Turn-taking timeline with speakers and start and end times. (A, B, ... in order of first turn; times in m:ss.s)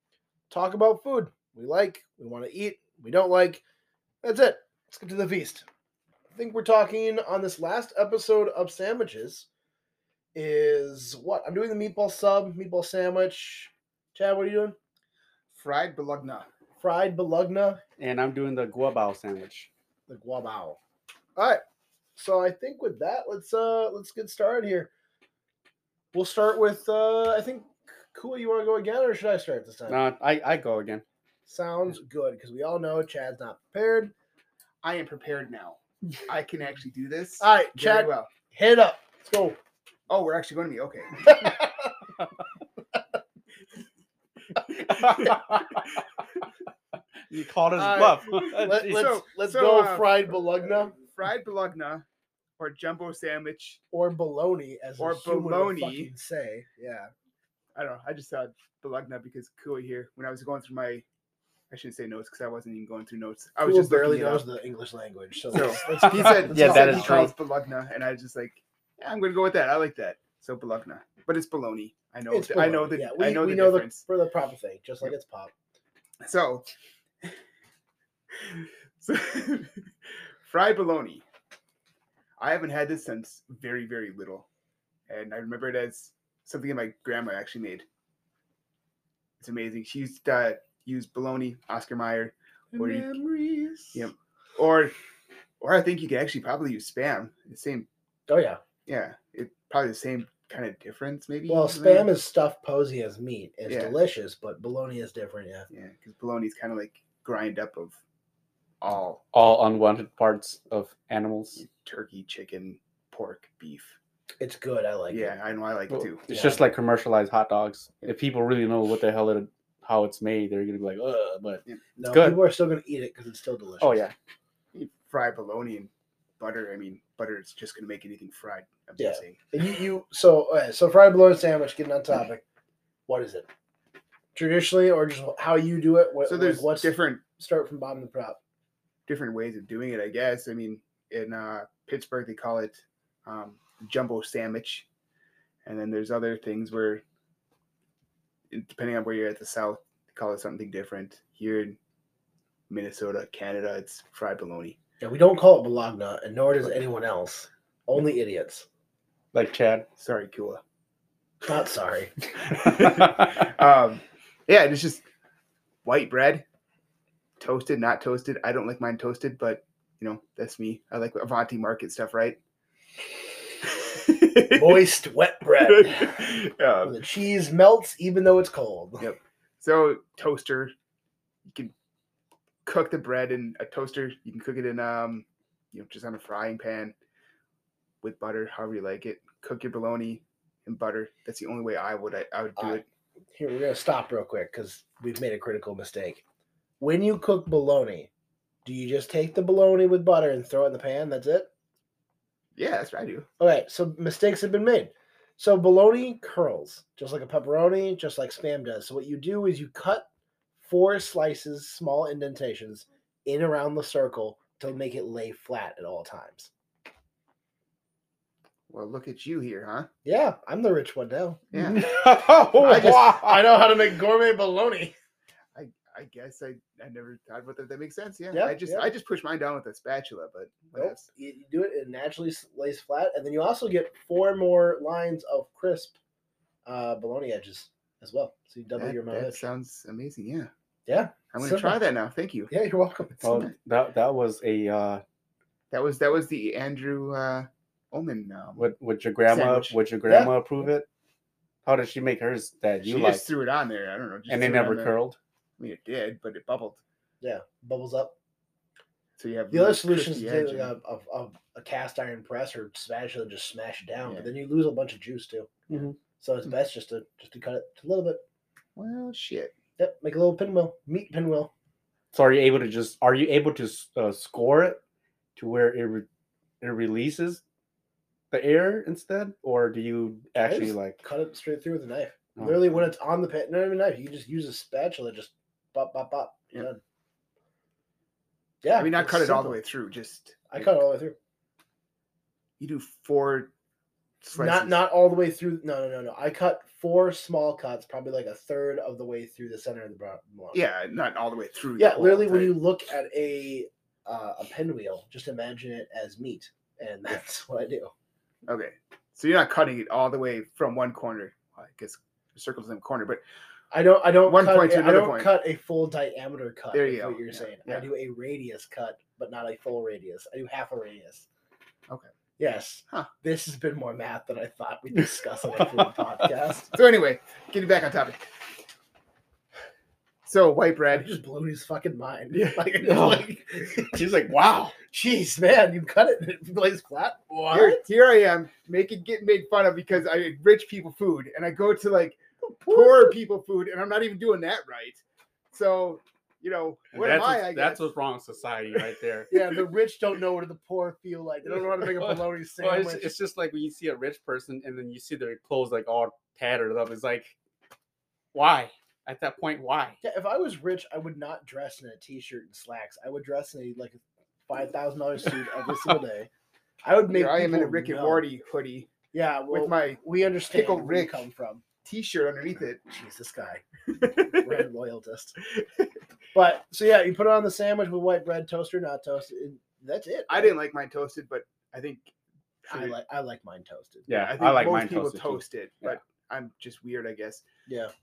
0:00.5-0:03.6 A
0:04.2-0:05.6 A
0:06.3-0:09.5 A
0:10.3-0:14.8 A
0:15.5-0:16.5 B
0:16.8-0:17.8 A
0:18.0-0:19.7 C
0:20.1-0:20.8 A
0:21.4-0:21.6 A
0:22.2-0:24.9 A
0:26.1-0:30.0 A
0:29.9-0:31.0 C
0:31.4-0:34.1 A
0:34.8-0:38.3 B
0:37.4-0:39.6 A
0:40.1-0:41.4 B
0:41.2-0:42.0 A
0:44.8-0:45.8 C
0:47.3-0:49.1 C
0:47.7-0:50.9 A
0:48.7-0:52.0 B
0:52.6-0:53.8 B
0:53.9-0:57.1 A
0:55.0-0:56.1 B
0:57.7-1:01.0 B
1:01.7-1:04.4 B
1:03.6-1:07.3 A
1:05.5-1:14.0 B
1:05.9-1:07.3 C
1:12.3-1:15.5 A
1:16.2-1:16.6 B
1:18.4-1:19.8 B
1:20.4-1:21.2 B
1:22.4-1:24.5 B
1:25.1-1:27.8 B
1:29.4-1:33.2 B
1:32.7-1:34.1 A
1:33.9-1:34.9 B
1:35.6-1:37.9 B
1:38.3-1:38.6 A
1:38.9-1:42.1 B
1:41.5-1:45.7 A
1:43.7-1:43.9 B
1:45.7-1:48.0 B
1:48.8-1:49.2 B
1:49.3-1:51.6 C
1:51.6-1:54.0 B
1:54.4-1:55.4 A
1:55.1-1:56.2 B
1:55.9-2:02.4 C
1:56.3-1:56.6 A
2:02.0-2:04.1 A
2:03.8-2:04.1 C
2:04.7-2:09.5 B
2:09.0-2:12.4 A
2:13.1-2:13.5 A
2:14.3-2:18.4 A
2:16.2-2:17.2 B
2:19.1-2:24.9 B
2:25.6-2:27.0 B
2:28.5-2:31.8 B
2:32.7-2:34.8 B
2:35.0-2:38.6 A
2:39.3-2:39.8 C
2:40.0-2:40.6 B
2:41.4-2:42.1 A
2:42.4-2:45.0 B
2:42.6-2:43.3 C
2:45.8-2:46.4 B
2:47.4-2:52.4 B
2:53.6-2:54.8 B
2:54.5-2:56.3 A
2:55.6-2:56.9 B
2:56.8-2:59.1 A
2:59.0-3:00.7 B
3:01.4-3:01.7 B
3:02.6-3:06.9 B
3:08.0-3:12.8 B
3:12.6-3:12.8 A
3:13.3-3:16.2 A
3:16.8-3:18.1 A
3:18.6-3:21.5 A
3:22.6-3:23.3 B
3:23.4-3:30.1 A
3:30.6-3:36.5 A
3:38.7-3:39.9 B
3:40.0-3:41.5 A
3:41.5-3:41.8 B
3:41.5-3:43.4 C
3:42.6-3:44.9 A
3:42.6-3:43.1 B
3:45.5-3:51.1 B
3:48.3-3:48.9 A
3:50.7-3:56.0 A
3:56.6-3:59.4 A
3:58.8-4:00.5 B
4:00.8-4:01.8 A
4:01.3-4:02.5 B
4:02.5-4:03.2 A
4:03.2-4:03.5 B
4:03.2-4:05.0 C
4:05.7-4:08.7 B
4:08.6-4:10.8 C
4:09.3-4:09.8 B
4:10.1-4:10.4 A
4:11.6-4:13.2 C
4:12.8-4:15.0 B
4:14.3-4:15.2 C
4:15.6-4:16.8 B
4:17.2-4:18.1 A
4:19.2-4:20.7 B
4:19.5-4:28.2 A
4:24.0-4:24.3 B
4:25.7-4:25.9 C
4:28.8-4:29.5 B
4:29.8-4:31.5 A
4:32.1-4:34.8 C
4:35.4-4:36.0 C
4:36.6-4:37.4 C
4:38.3-4:41.0 C
4:40.4-4:46.8 A
4:48.6-4:49.6 A
4:48.7-4:50.7 B
4:50.5-4:51.2 A
4:52.6-4:53.5 B
4:54.2-4:54.8 B
4:54.3-5:00.6 A
5:00.5-5:02.5 B
5:01.8-5:07.9 A
5:08.5-5:13.2 B
5:13.7-5:21.3 A
5:14.2-5:15.3 B
5:16.7-5:17.8 B
5:22.4-5:26.7 A
5:26.7-5:28.2 B
5:30.2-5:31.1 B
5:30.9-5:34.0 A
5:32.4-5:34.8 C
5:34.9-5:37.8 A
5:37.5-5:47.9 B
5:42.4-5:43.2 A
5:46.9-5:49.3 C
5:49.3-5:53.1 A
5:51.8-5:57.4 C
5:58.3-6:00.0 C
6:00.0-6:06.3 A
6:06.8-6:08.2 A
6:07.1-6:08.9 B
6:09.1-6:11.6 A
6:09.5-6:11.2 B
6:11.8-6:12.8 B
6:12.8-6:13.6 A
6:13.9-6:14.5 B
6:14.2-6:15.4 A
6:15.6-6:15.9 B
6:16.3-6:20.5 A
6:20.3-6:22.1 B
6:22.6-6:23.0 B
6:22.7-6:24.1 A
6:24.1-6:25.9 C
6:24.1-6:27.4 B
6:27.6-6:27.9 A